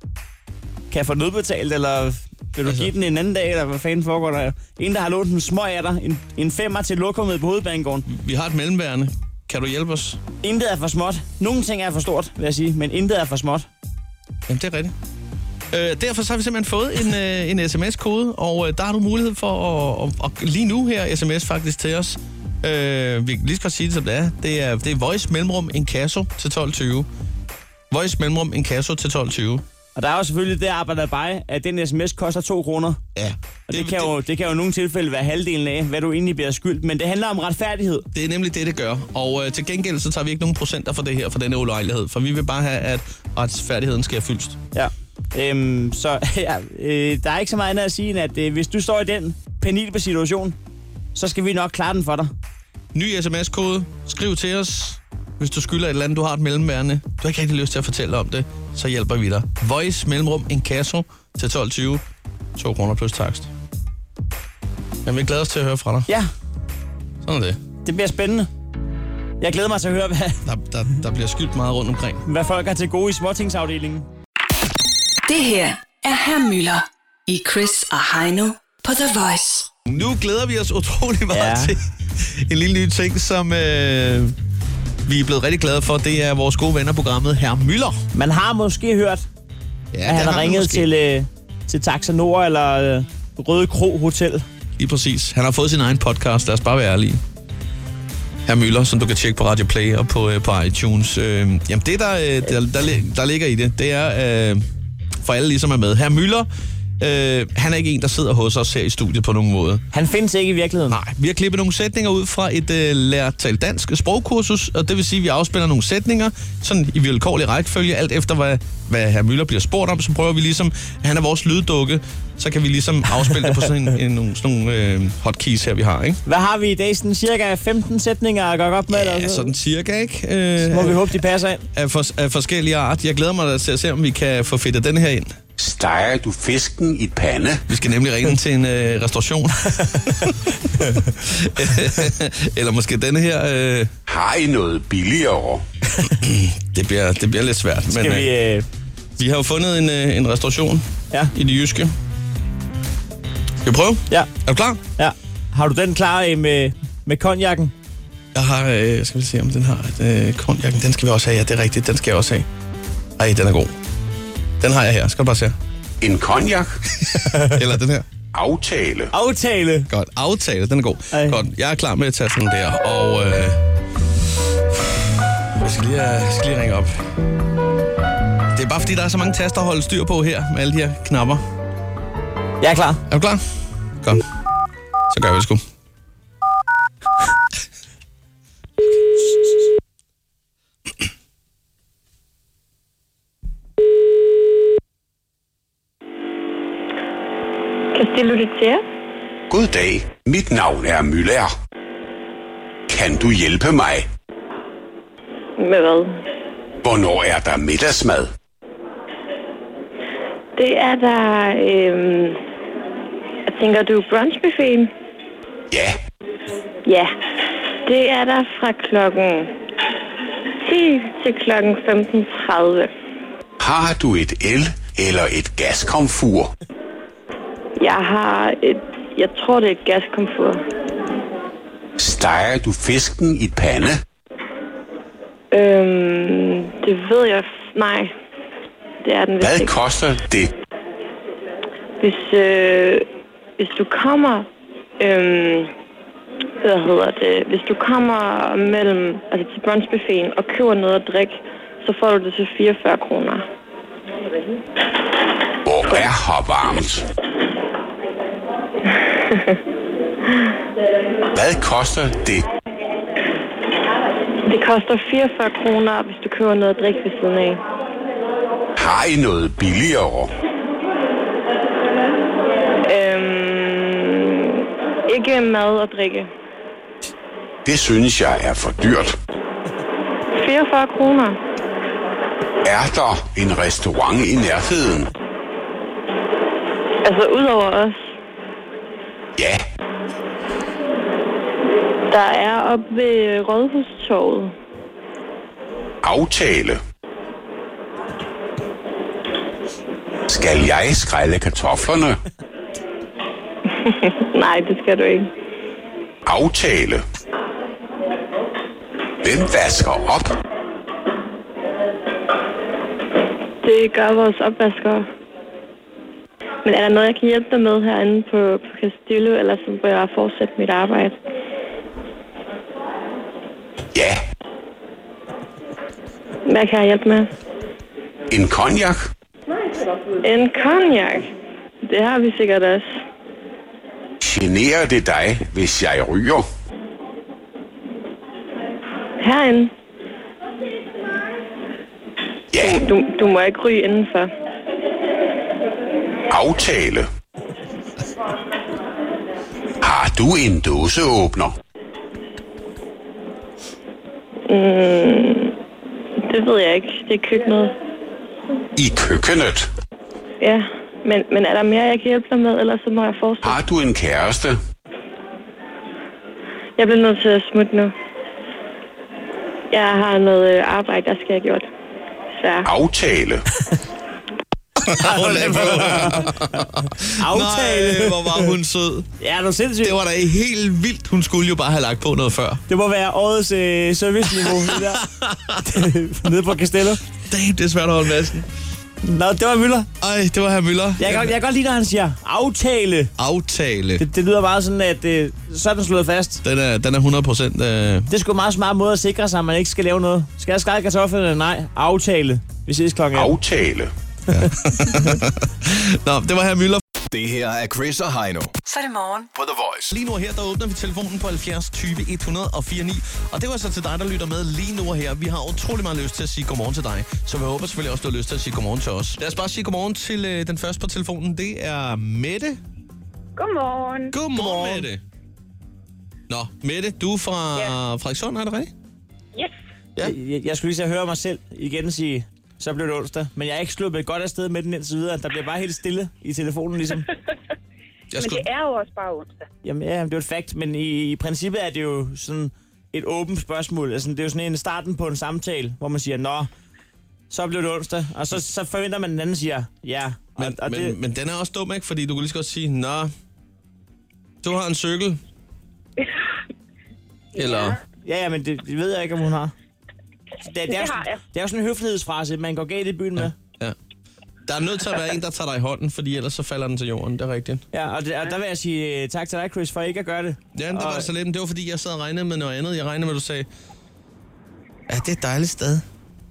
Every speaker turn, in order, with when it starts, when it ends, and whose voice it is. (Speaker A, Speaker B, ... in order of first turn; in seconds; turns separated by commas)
Speaker A: 0.9-8.1, Speaker B: 2.6-2.9, Speaker B: 8.1-10.2, Speaker A: 10.4-13.7, Speaker B: 14.5-14.9, Speaker B: 15.7-27.1, Speaker B: 27.9-29.6, Speaker A: 29.9-33.0, Speaker B: 33.1-34.1, Speaker A: 33.7-38.1, Speaker B: 38.1-44.6, Speaker A: 44.7-50.6, Speaker A: 51.1-52.3, Speaker B: 52.9-62.0, Speaker B: 62.5-63.5, Speaker B: 65.0-66.1, Speaker B: 67.2-67.6, Speaker A: 67.8-68.5, Speaker A: 69.4-70.4, Speaker B: 70.5-72.2, Speaker A: 72.2-74.1, Speaker C: 75.2-79.7, Speaker B: 79.8-84.3, Speaker A: 81.3-81.8, Speaker B: 85.0-88.0, Speaker A: 88.1-89.2, Speaker B: 89.9-90.9, Speaker A: 90.0-94.4, Speaker B: 94.8-97.2, Speaker B: 98.5-104.7, Speaker B: 105.2-106.5, Speaker B: 107.0-109.8, Speaker A: 109.9-111.0, Speaker B: 110.9-126.2, Speaker A: 126.2-129.5, Speaker B: 128.9-131.0, Speaker A: 130.6-131.7, Speaker B: 131.7-135.3, Speaker D: 135.6-137.6, Speaker B: 137.7-140.3, Speaker A: 139.8-141.1, Speaker B: 141.2-143.9, Speaker D: 144.1-145.6, Speaker B: 146.2-148.3, Speaker A: 147.9-148.7, Speaker B: 149.2-151.9, Speaker B: 153.6-154.8, Speaker A: 155.0-157.7, Speaker B: 158.3-162.4, Speaker B: 163.2-163.7, Speaker B: 164.6-165.5, Speaker D: 166.0-166.8, Speaker B: 167.0-168.1, Speaker A: 167.1-167.6, Speaker D: 168.3-169.1, Speaker A: 169.1-169.9, Speaker B: 169.9-173.6, Speaker A: 171.1-171.4, Speaker B: 175.5-176.9, Speaker B: 178.5-181.4, Speaker A: 182.6-183.0, Speaker B: 183.1-183.4, Speaker B: 185.1-185.6, Speaker E: 197.9-198.8, Speaker D: 199.5-201.5, Speaker D: 202.9-204.1, Speaker E: 205.6-206.1, Speaker D: 206.8-208.3, Speaker E: 210.6-212.4, Speaker E: 213.5-214.9, Speaker D: 215.7-216.0, Speaker E: 216.8-217.1, Speaker E: 217.8-219.5, Speaker E: 220.6-222.9, Speaker D: 223.6-226.5, Speaker E: 227.8-230.6, Speaker D: 232.0-234.0, Speaker E: 235.5-238.1, Speaker E: 239.0-239.7, Speaker D: 239.4-240.5, Speaker E: 242.0-243.1, Speaker E: 243.6-244.5, Speaker E: 245.0-245.7, Speaker E: 246.6-253.4, Speaker D: 255.6-257.1, Speaker E: 258.9-259.6, Speaker D: 261.3-262.5, Speaker E: 264.4-267.6, Speaker D: 268.8-270.3, Speaker E: 272.9-276.3, Speaker D: 277.6-279.1, Speaker E: 280.3-281.4, Speaker D: 282.6-285.1, Speaker E: 287.0-288.1, Speaker D: 289.4-289.6, Speaker E: 292.1-294.5, Speaker D: 296.0-296.8, Speaker D: 300.3-302.2, Speaker E: 303.7-305.3, Speaker D: 306.2-307.0, Speaker D: 309.2-310.3, Speaker E: 313.6-315.1, Speaker E: 316.6-321.2, Speaker D: 323.9-324.2, Speaker E: 326.4-327.3, Speaker D: 328.3-329.1, Speaker E: 330.2-331.3, Speaker E: 331.8-332.9, Speaker D: 334.2-336.4, Speaker E: 339.2-339.7, Speaker D: 342.5-342.8, Speaker E: 342.6-344.3, Speaker D: 346.3-347.1, Speaker D: 349.8-351.5, Speaker E: 354.5-355.5, Speaker E: 356.2-357.7, Speaker D: 358.8-359.7, Speaker E: 360.4-363.6, Speaker D: 363.4-364.6, Speaker E: 366.8-367.9, Speaker E: 369.7-371.7, Speaker E: 372.3-372.6, Speaker D: 372.6-373.4, Speaker B: 374.8-379.1, Speaker A: 374.9-376.6, Speaker A: 377.2-378.5, Speaker A: 379.2-380.0, Speaker B: 379.8-382.6, Speaker A: 382.7-385.1, Speaker B: 384.4-385.7, Speaker A: 385.6-387.0, Speaker B: 387.3-388.5, Speaker A: 389.0-389.9, Speaker B: 390.0-391.4, Speaker A: 391.0-393.1, Speaker B: 393.2-394.0, Speaker A: 394.0-396.4, Speaker B: 396.4-398.1, Speaker A: 398.1-403.3, Speaker D: 403.1-403.9, Speaker B: 404.3-406.8, Speaker F: 407.1-408.6, Speaker C: 408.6-409.3, Speaker F: 409.3-409.9, Speaker B: 409.9-422.6, Speaker G: 423.4-424.8, Speaker B: 424.1-425.0, Speaker B: 426.3-428.7, Speaker A: 430.0-437.1, Speaker B: 438.1-438.4, Speaker G: 438.1-439.5, Speaker A: 439.6-446.5, Speaker A: 447.3-450.9, Speaker B: 450.4-453.1, Speaker B: 454.4-455.2, Speaker G: 457.3-457.8, Speaker B: 457.4-457.8, Speaker A: 458.0-459.5, Speaker A: 460.4-463.3, Speaker G: 460.7-461.2, Speaker B: 463.2-463.8, Speaker B: 464.4-467.6, Speaker A: 467.7-471.1, Speaker B: 470.5-473.5, Speaker B: 474.9-475.8